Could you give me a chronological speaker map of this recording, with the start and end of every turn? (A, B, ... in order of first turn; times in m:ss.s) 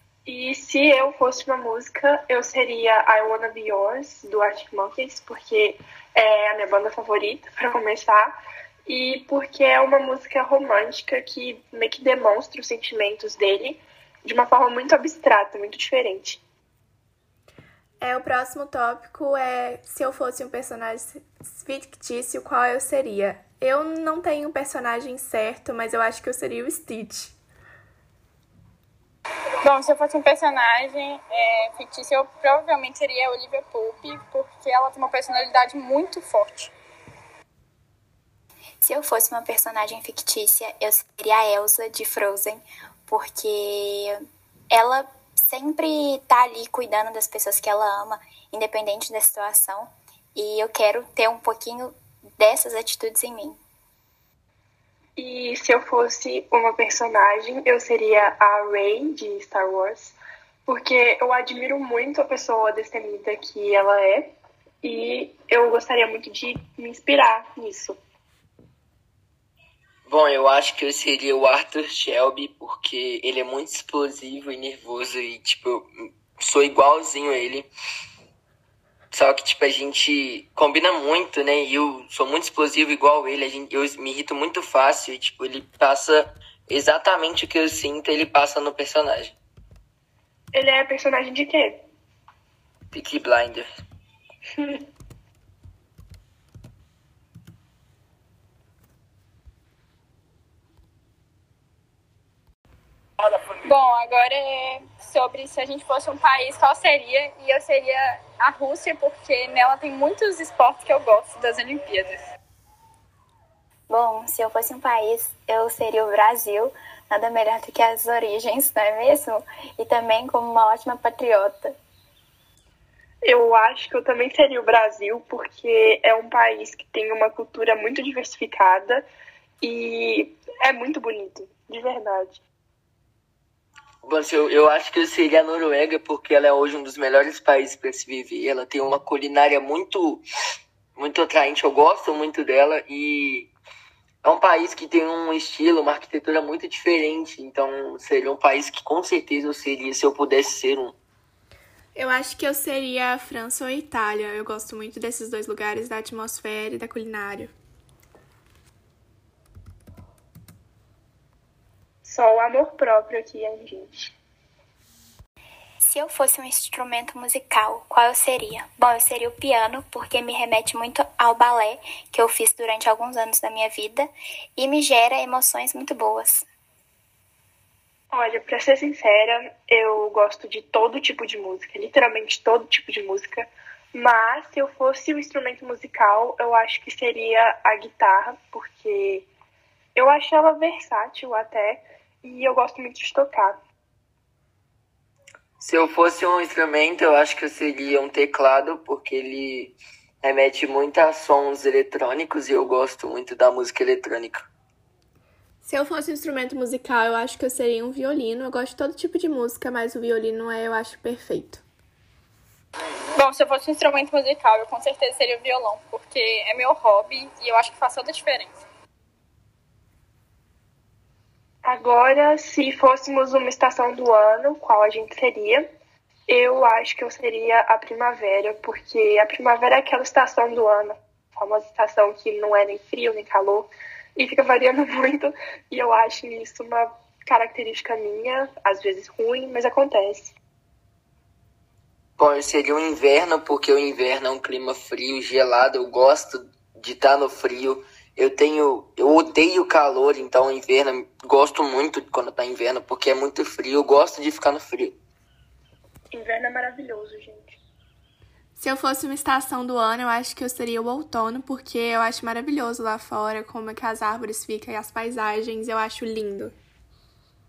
0:00.3-0:16.4 A
0:18.0-0:27.4 B
0:29.6-0:36.7 C
0:38.8-0:44.2 D
0:44.7-0:53.6 D
0:55.2-1:08.0 A
1:10.1-1:17.7 E
1:19.1-1:29.4 E
1:30.5-1:31.8 A
1:32.9-1:33.7 E
1:34.6-1:34.8 A
1:43.6-1:52.2 C
1:53.9-2:01.8 D
2:03.2-2:09.1 A
2:09.6-2:12.4 A
2:14.0-2:20.2 E
2:21.0-2:23.5 E
2:24.2-2:31.0 E
2:32.0-2:37.5 B
2:42.0-2:44.2 A
2:45.8-2:56.5 D
2:58.1-3:09.3 A
3:10.0-3:13.6 A
3:15.6-3:24.5 E
3:25.6-3:31.6 B
3:33.2-3:38.6 C
3:41.6-3:45.7 A
3:46.3-4:00.4 A
4:02.2-4:15.0 E
4:16.1-4:17.6 A
4:18.6-4:26.6 B